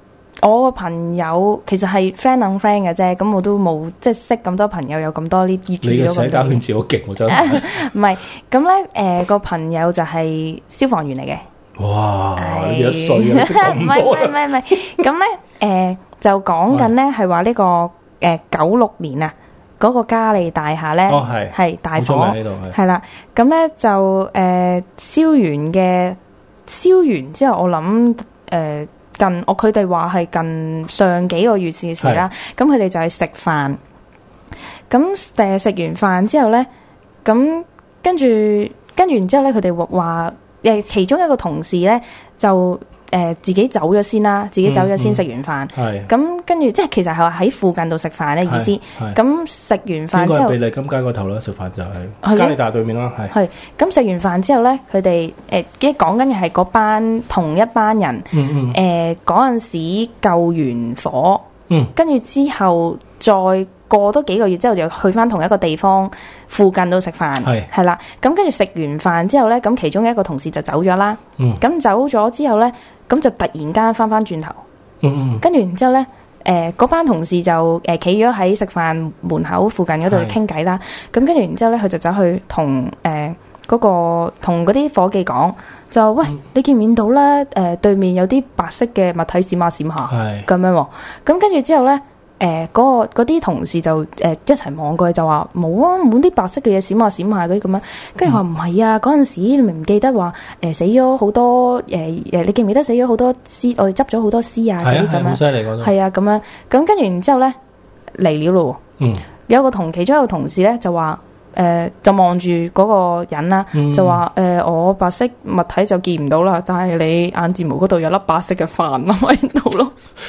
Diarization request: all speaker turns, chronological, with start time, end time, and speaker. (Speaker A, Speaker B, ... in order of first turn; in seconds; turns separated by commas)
Speaker A: 0.4-6.6, Speaker B: 5.8-7.9, Speaker A: 7.2-11.4, Speaker B: 11.8-15.0, Speaker A: 12.4-33.8, Speaker B: 21.1-22.8, Speaker B: 32.0-32.3, Speaker A: 34.9-36.7, Speaker A: 37.2-50.6, Speaker B: 44.6-46.1, Speaker B: 48.5-49.2, Speaker B: 50.1-53.3, Speaker A: 52.2-52.6, Speaker A: 53.3-74.6, Speaker B: 58.3-58.8, Speaker B: 67.4-67.7, Speaker B: 75.0-75.4, Speaker A: 75.4-107.5, Speaker B: 80.1-80.4, Speaker B: 90.1-90.5, Speaker B: 104.8-105.9, Speaker A: 108.1-108.8, Speaker B: 109.0-109.3, Speaker A: 109.5-120.0, Speaker B: 113.7-114.2